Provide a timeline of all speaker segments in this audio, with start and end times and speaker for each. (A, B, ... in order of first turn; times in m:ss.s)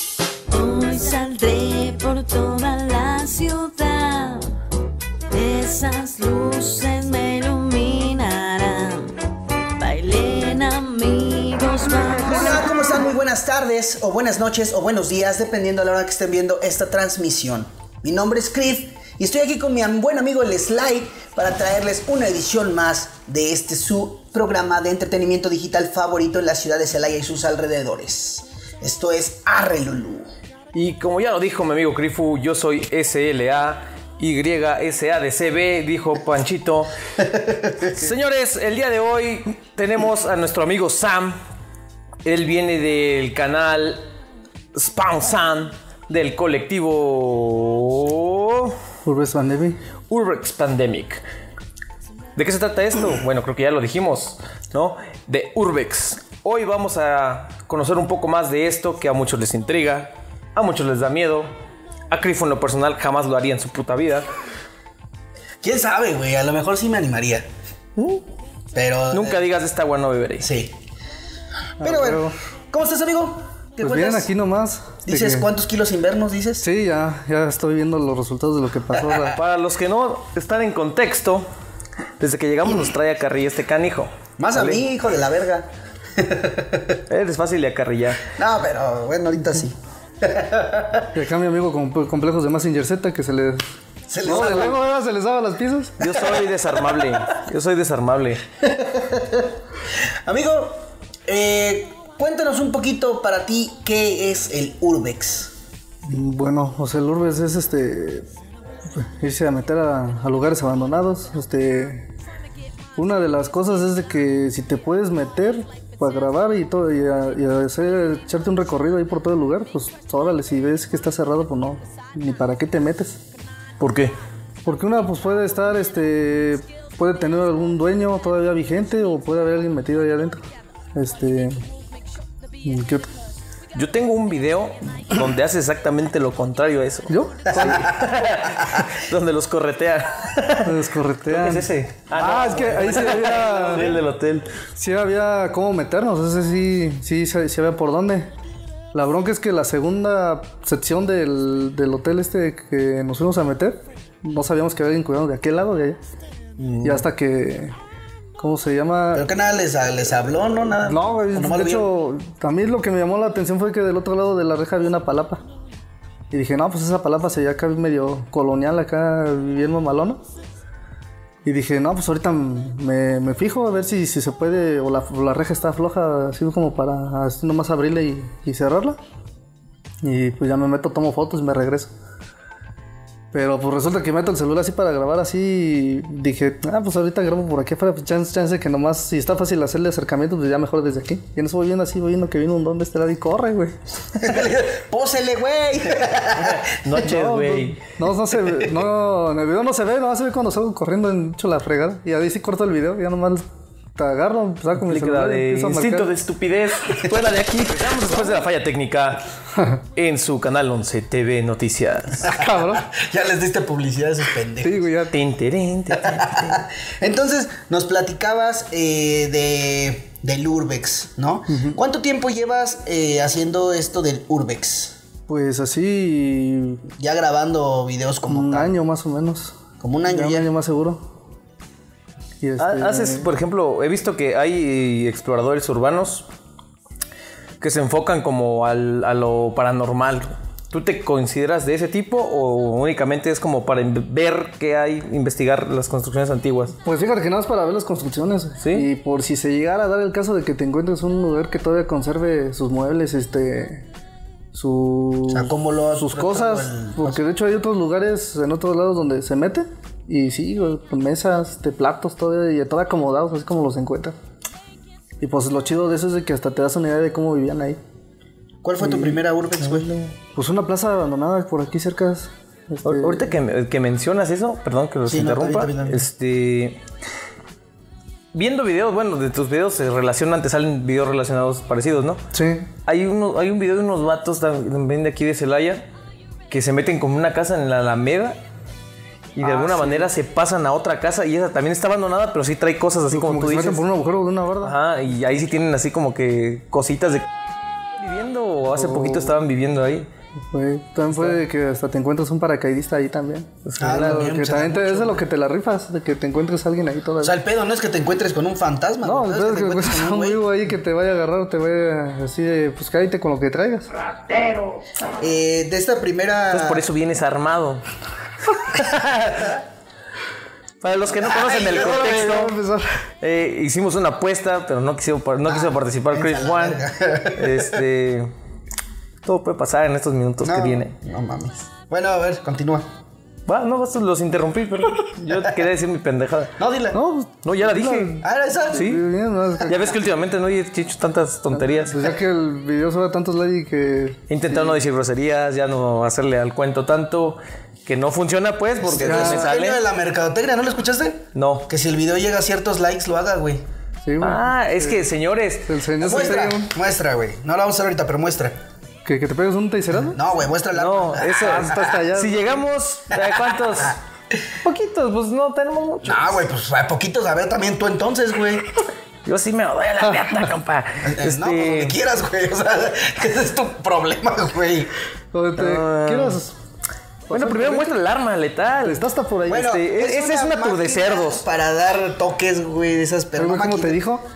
0:00.5-0:04.5 A
0:05.3-0:09.1 A
0:09.8-0:12.7 A
0:12.2-0:30.3 B
0:30.7-0:36.9 C
0:37.8-0:41.4 C
0:42.2-0:44.0 C
0:44.7-0:48.8 C
0:49.0-0:49.8 D
0:50.1-0:51.2 C
0:52.4-1:01.5 C
1:02.1-1:04.3 C
1:05.6-1:07.5 B
1:08.8-1:09.4 B
1:09.1-1:10.5 C
1:10.4-1:10.8 B
1:11.8-1:12.4 D
1:11.8-1:14.3 B
1:13.8-1:15.5 D
1:15.1-1:16.6 B
1:16.6-1:19.4 D
1:19.2-1:21.5 C
1:22.2-1:24.8 C
1:24.4-1:27.0 B
1:27.1-1:28.3 C
1:28.3-1:31.1 B
1:31.1-1:33.6 D
1:34.1-1:34.8 B
1:34.2-1:36.0 D
1:36.0-1:38.4 C
1:38.6-1:39.5 B
1:40.3-1:45.5 B
1:46.0-1:48.2 D
1:48.9-1:52.1 D
1:53.0-2:03.2 D
2:03.8-2:04.2 C
2:04.6-2:10.4 D
2:11.0-2:11.6 D
2:12.6-2:13.1 D
2:13.8-2:24.5 C
2:17.1-2:18.0 D
2:17.6-2:18.8 B
2:20.6-2:24.0 D
2:24.8-2:28.3 D
2:28.9-2:36.0 D
2:36.6-2:37.0 B
2:36.8-2:37.7 D
2:38.4-2:39.2 D
2:39.1-2:41.9 B
2:40.8-2:45.4 D
2:46.3-2:50.2 D
2:51.4-2:59.0 D
3:00.0-3:01.9 D
3:03.3-3:13.8 D
3:14.2-3:16.8 B
3:16.4-3:17.8 C
3:17.0-3:23.4 D
3:24.0-3:26.1 D
3:24.8-3:29.2 C
3:30.0-3:32.4 C
3:32.2-3:32.9 D
3:32.6-3:34.8 B
3:34.6-3:35.1 D
3:35.1-3:36.6 C
3:36.0-3:45.0 B
3:41.5-3:41.8 D
3:45.3-3:46.8 D
3:47.0-3:48.7 B
3:48.3-3:51.0 D
3:49.8-3:50.5 B
3:52.4-3:53.3 D
3:52.6-3:56.3 C
3:57.6-4:06.8 C
4:06.8-4:13.9 D
4:08.6-4:08.9 C
4:14.5-4:24.2 D
4:15.3-4:17.2 B
4:25.2-4:27.8 D
4:28.6-4:30.0 B
4:28.8-4:29.2 D
4:30.4-4:33.3 D
4:32.8-4:36.8 C
4:35.1-4:36.0 B
4:38.3-4:42.2 C
4:42.3-4:42.7 D
4:42.9-4:45.9 C
4:46.5-4:48.4 C
4:49.4-4:53.8 C
4:49.4-4:50.1 D
4:53.1-4:54.8 D
4:54.6-4:57.3 C
4:58.0-5:00.1 C
4:58.7-4:59.4 D
5:00.5-5:07.4 D
5:03.7-5:04.3 C
5:03.8-5:05.2 B
5:07.2-5:10.4 B
5:09.0-5:13.9 D
5:14.3-5:14.7 C
5:15.2-5:16.9 B
5:16.5-5:17.8 C
5:18.5-5:19.6 C
5:20.8-5:22.6 C
5:21.1-5:22.3 B
5:21.7-5:23.0 D
5:23.2-5:26.8 C
5:25.4-5:27.8 B
5:27.4-5:28.3 C
5:29.2-5:30.9 C
5:30.4-5:32.9 B
5:33.5-5:36.6 C
5:36.6-5:37.0 B
5:36.9-5:39.9 D
5:37.4-5:38.2 C
5:38.2-5:39.0 B
5:38.7-5:39.0 C
5:39.6-5:42.2 C
5:41.5-5:44.8 D
5:44.3-5:49.8 C
5:48.8-5:53.6 B
5:49.0-5:49.5 D
5:51.4-5:51.7 C
5:54.0-5:55.0 D
5:54.2-5:55.7 C
5:55.7-5:56.8 D
5:56.0-5:58.6 B
5:59.0-6:00.2 D
6:00.1-6:01.8 B
6:00.7-6:04.0 C
6:01.3-6:02.6 D
6:03.1-6:03.6 B
6:04.6-6:06.3 C
6:06.0-6:08.7 B
6:09.3-6:12.0 C
6:11.0-6:14.9 B
6:15.3-6:16.6 D
6:15.6-6:16.4 C
6:17.3-6:17.9 D
6:17.3-6:21.4 C
6:18.8-6:19.7 D
6:19.5-6:24.0 B
6:23.4-6:24.2 D